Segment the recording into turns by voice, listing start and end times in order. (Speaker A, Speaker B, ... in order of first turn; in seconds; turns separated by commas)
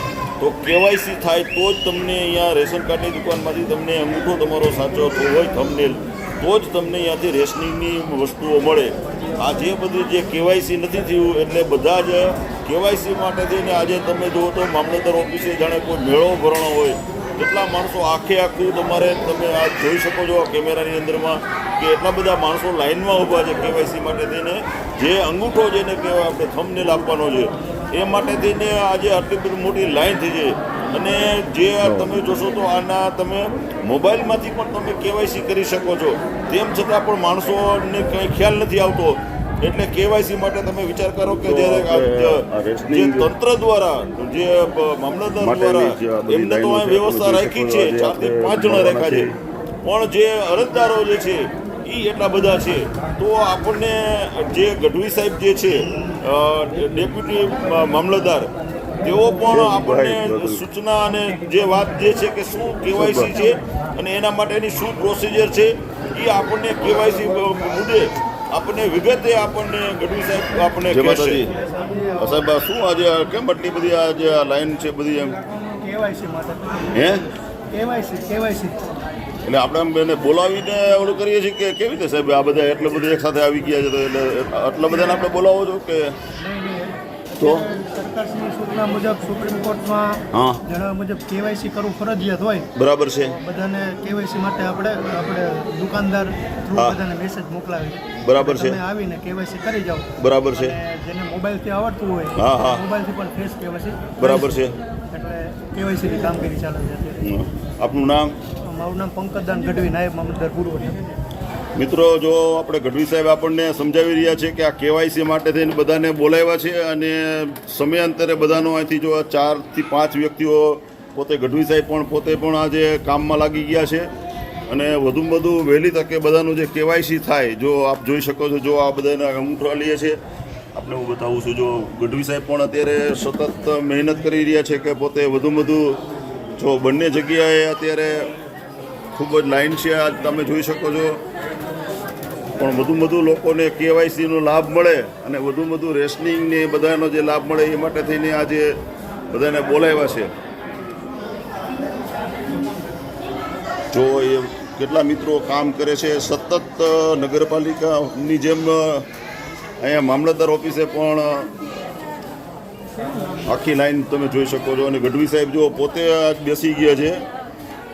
Speaker A: 0.4-58.5, Speaker B: 31.8-32.1, Speaker B: 41.4-43.3, Speaker B: 45.4-49.4, Speaker A: 59.0-71.5, Speaker B: 59.5-60.6, Speaker B: 62.9-63.5, Speaker B: 70.9-71.5, Speaker C: 71.6-72.2, Speaker B: 72.2-75.4, Speaker C: 75.8-77.0, Speaker B: 76.9-77.2, Speaker C: 77.7-78.8, Speaker B: 79.4-86.1, Speaker C: 86.3-92.7, Speaker B: 87.4-87.6, Speaker B: 90.3-90.6, Speaker B: 92.7-93.3, Speaker C: 93.2-107.2, Speaker B: 98.2-98.8, Speaker B: 100.2-100.7, Speaker B: 102.4-102.8, Speaker B: 104.2-104.7, Speaker B: 107.2-108.3, Speaker C: 108.6-111.0, Speaker B: 111.8-124.1, Speaker B: 124.7-130.2, Speaker B: 130.7-136.0, Speaker B: 136.6-138.3, Speaker B: 139.1-141.2, Speaker B: 142.6-148.8, Speaker B: 149.3-150.3, Speaker B: 153.9-159.1, Speaker B: 159.8-161.5, Speaker B: 163.4-167.2